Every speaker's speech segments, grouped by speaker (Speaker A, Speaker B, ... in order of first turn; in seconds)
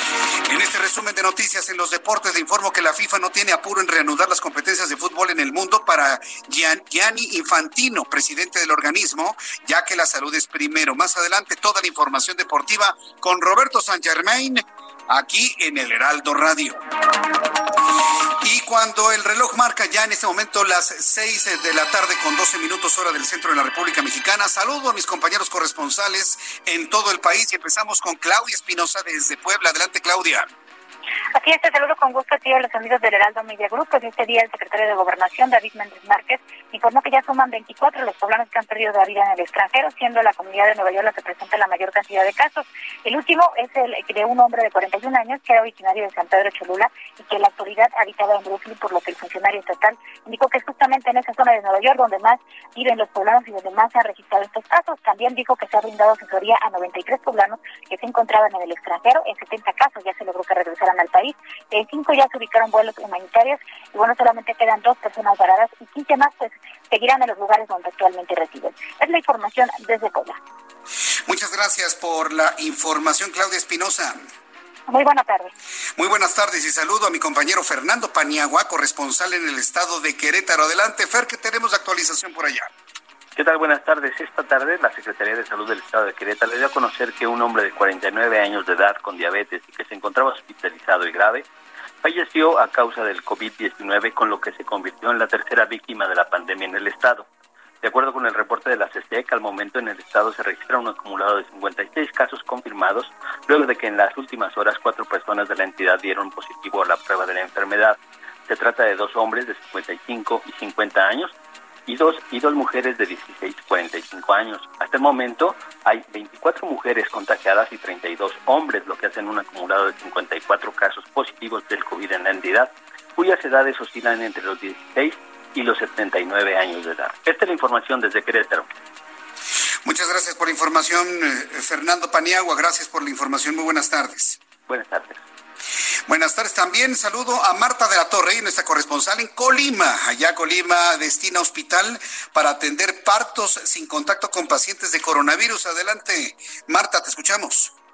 Speaker A: 0.5-16.8, 18.4-30.5, 71.3-74.2, 76.0-82.7, 129.8-134.4, 136.1-147.7
Speaker B: 31.4-70.4, 74.9-75.5
Speaker C: 83.4-91.5, 92.0-97.3, 97.8-111.3, 111.9-128.7, 134.7-135.2